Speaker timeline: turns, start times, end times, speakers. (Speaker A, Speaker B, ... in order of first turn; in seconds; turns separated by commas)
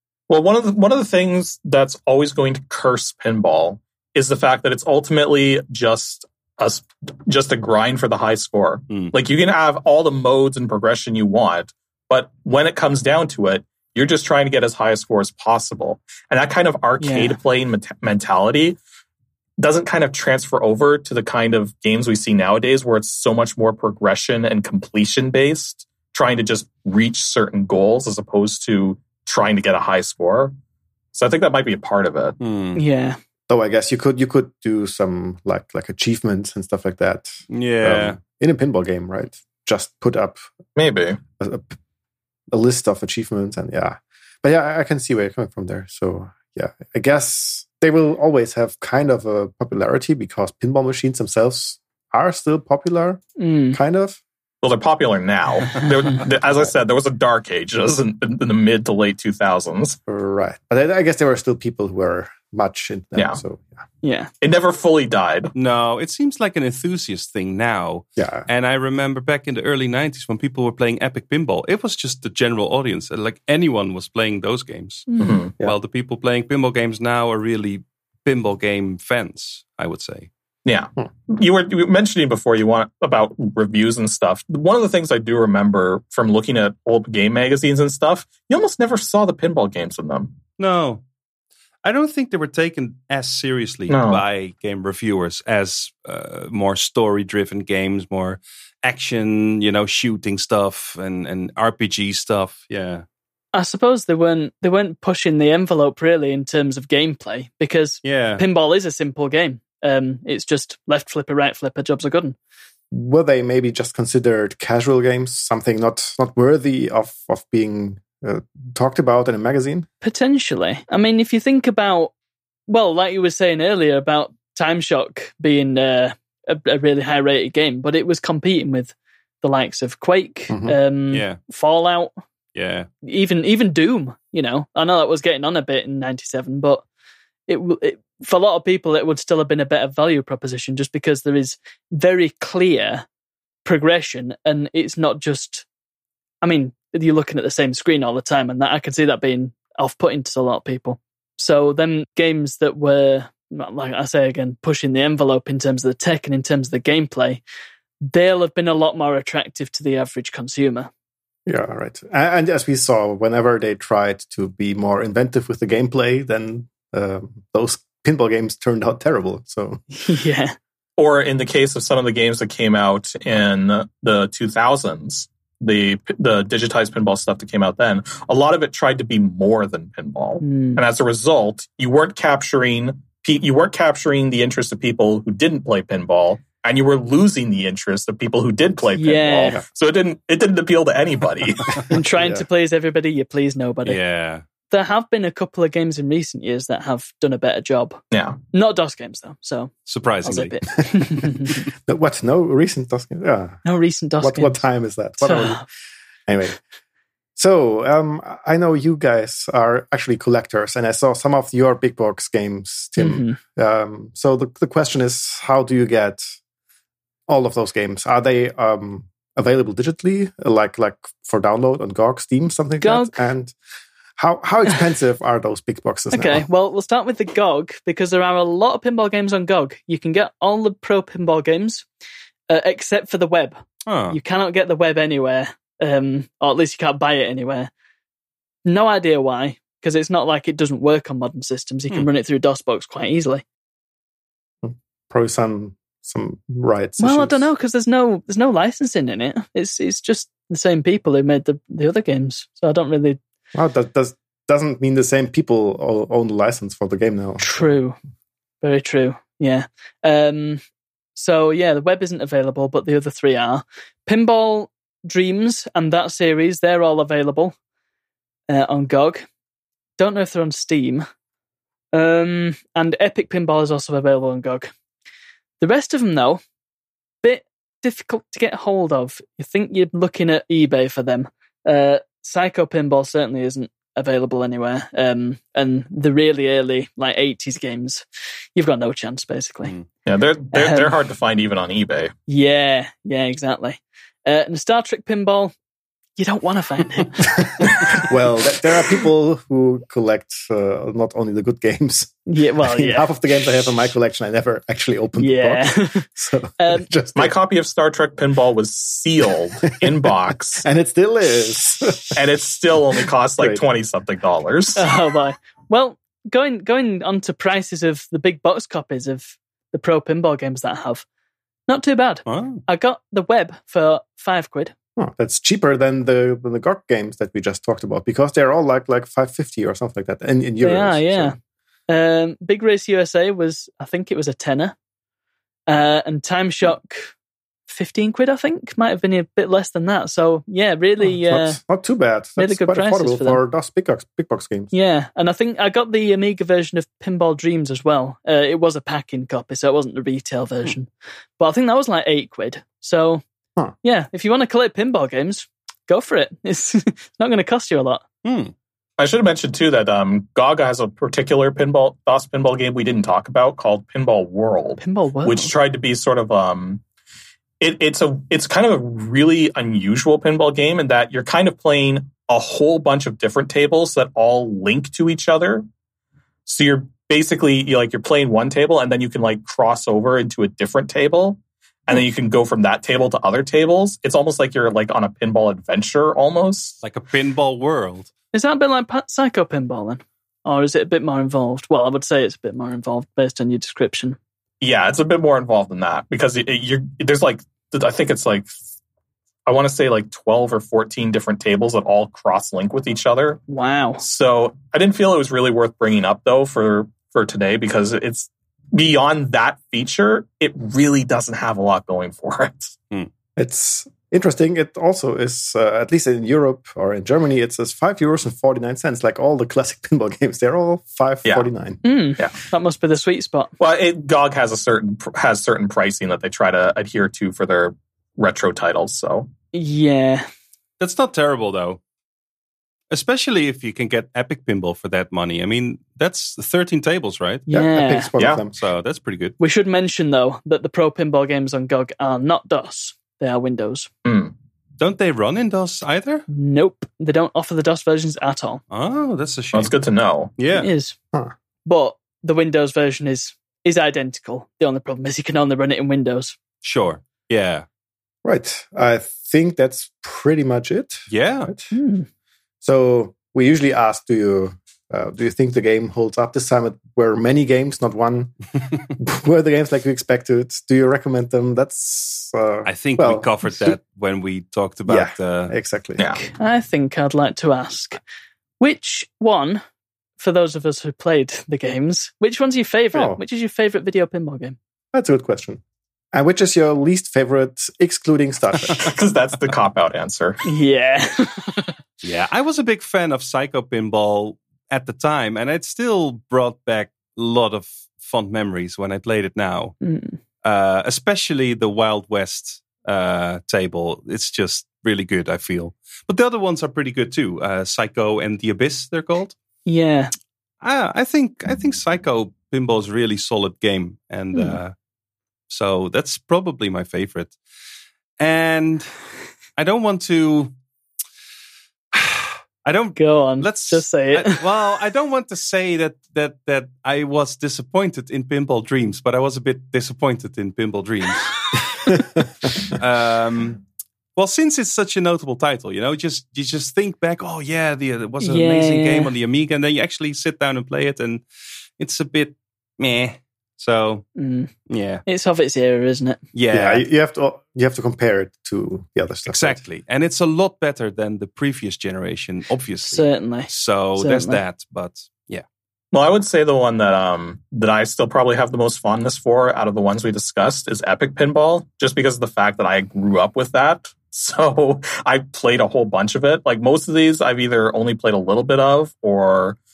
Speaker A: 0.3-18.8, Speaker B: 17.0-17.4, Speaker A: 19.6-30.5, Speaker A: 31.1-32.4, Speaker C: 32.4-32.8, Speaker B: 32.7-33.2, Speaker D: 33.5-40.4, Speaker C: 37.5-38.2, Speaker A: 40.8-41.2, Speaker D: 41.4-41.7, Speaker D: 42.5-54.2, Speaker B: 53.4-53.8, Speaker A: 54.6-60.0, Speaker D: 60.1-63.8, Speaker A: 63.1-63.4, Speaker B: 64.0-64.3, Speaker A: 64.4-65.5, Speaker C: 65.5-80.3, Speaker D: 68.2-68.5, Speaker B: 75.1-75.4, Speaker A: 75.2-75.5, Speaker A: 80.6-90.3, Speaker C: 90.6-91.0, Speaker C: 91.8-103.0, Speaker A: 93.9-94.2, Speaker B: 103.5-112.3, Speaker C: 108.0-108.4, Speaker D: 112.9-119.9, Speaker B: 120.0-122.1, Speaker B: 122.7-132.2, Speaker D: 130.5-130.8, Speaker C: 131.1-131.4, Speaker C: 132.5-132.9, Speaker B: 133.0-136.8, Speaker B: 137.5-143.1, Speaker B: 143.6-145.7, Speaker B: 146.4-157.4, Speaker B: 158.1-160.9, Speaker D: 161.4-169.8, Speaker B: 169.9-170.5, Speaker A: 171.0-191.8, Speaker B: 180.4-180.8, Speaker B: 188.9-189.6, Speaker B: 191.9-194.0, Speaker D: 192.2-192.4, Speaker C: 193.8-194.4, Speaker B: 194.7-198.0, Speaker A: 198.1-198.4, Speaker B: 198.5-201.7, Speaker C: 199.8-200.6, Speaker D: 200.9-203.6, Speaker B: 203.6-204.6, Speaker D: 204.2-205.7, Speaker B: 205.2-205.6, Speaker D: 206.3-206.6, Speaker D: 207.3-216.2, Speaker B: 213.0-213.4, Speaker D: 217.3-223.6, Speaker B: 222.8-223.2, Speaker D: 224.2-226.4, Speaker B: 226.1-231.8, Speaker B: 232.5-237.7, Speaker C: 233.8-234.2, Speaker B: 238.6-243.4, Speaker D: 244.6-247.5, Speaker B: 247.0-253.2, Speaker D: 253.5-257.4, Speaker B: 257.4-258.0, Speaker B: 258.6-260.6, Speaker B: 261.1-267.5, Speaker B: 268.5-269.3, Speaker B: 270.0-271.1, Speaker B: 271.9-274.7, Speaker B: 275.6-276.4, Speaker B: 277.2-288.0, Speaker B: 288.5-289.7, Speaker A: 290.1-292.1, Speaker B: 290.5-290.9, Speaker B: 292.3-295.5, Speaker B: 296.2-297.6, Speaker D: 297.6-307.3, Speaker B: 302.3-303.1, Speaker B: 305.1-306.1, Speaker B: 306.6-306.9, Speaker A: 307.1-310.6, Speaker D: 310.6-312.3, Speaker A: 312.1-314.9, Speaker B: 314.8-321.1, Speaker B: 321.7-324.7, Speaker C: 322.3-322.6, Speaker D: 325.0-331.3, Speaker B: 330.6-331.4, Speaker B: 331.9-334.7, Speaker B: 335.7-337.1, Speaker B: 337.7-341.6, Speaker D: 341.0-344.7, Speaker B: 342.4-343.4, Speaker B: 344.7-353.2, Speaker B: 353.8-358.0, Speaker C: 358.2-358.5, Speaker A: 359.0-366.8, Speaker B: 364.8-365.5, Speaker A: 367.6-375.6, Speaker A: 376.4-386.8, Speaker C: 386.8-388.1, Speaker B: 388.3-394.2, Speaker A: 394.6-398.5, Speaker A: 399.4-403.4, Speaker B: 403.5-404.0, Speaker A: 404.0-412.8, Speaker D: 413.4-421.8, Speaker B: 421.8-423.5, Speaker A: 423.6-429.3, Speaker B: 429.5-430.2, Speaker C: 430.8-431.8, Speaker C: 432.9-437.5, Speaker D: 437.5-438.6, Speaker B: 437.5-438.1, Speaker A: 438.2-438.4, Speaker C: 438.5-439.3, Speaker B: 439.4-443.9, Speaker A: 444.0-444.3, Speaker C: 444.8-446.2, Speaker B: 446.3-448.6, Speaker C: 448.7-449.7, Speaker A: 449.5-450.3, Speaker C: 450.4-450.7, Speaker B: 450.5-450.9, Speaker B: 451.6-456.4, Speaker C: 456.6-457.6, Speaker D: 458.2-461.7, Speaker C: 461.1-461.5, Speaker B: 461.7-462.1, Speaker D: 462.6-468.3, Speaker D: 468.9-473.7, Speaker C: 472.6-475.5, Speaker D: 474.9-476.0, Speaker A: 476.0-476.2, Speaker B: 476.2-478.0, Speaker B: 478.6-479.6, Speaker B: 480.2-484.6, Speaker D: 482.9-483.2, Speaker D: 484.9-485.6, Speaker D: 486.1-488.9, Speaker A: 488.7-490.4, Speaker B: 490.4-491.7, Speaker C: 492.0-499.7, Speaker B: 499.8-500.2, Speaker C: 500.4-509.4, Speaker B: 509.6-510.1, Speaker C: 510.6-514.7, Speaker B: 514.3-514.6, Speaker C: 515.5-517.4, Speaker C: 518.2-518.9, Speaker C: 519.6-520.5, Speaker C: 521.9-531.9, Speaker B: 523.0-524.5, Speaker C: 532.6-533.6, Speaker C: 534.1-541.2, Speaker B: 538.2-539.1, Speaker C: 541.8-544.0, Speaker B: 544.2-544.5, Speaker C: 544.7-545.0, Speaker B: 545.0-546.2, Speaker C: 546.3-546.8, Speaker D: 546.5-549.6, Speaker C: 549.3-555.4, Speaker B: 552.8-554.4, Speaker A: 555.9-569.6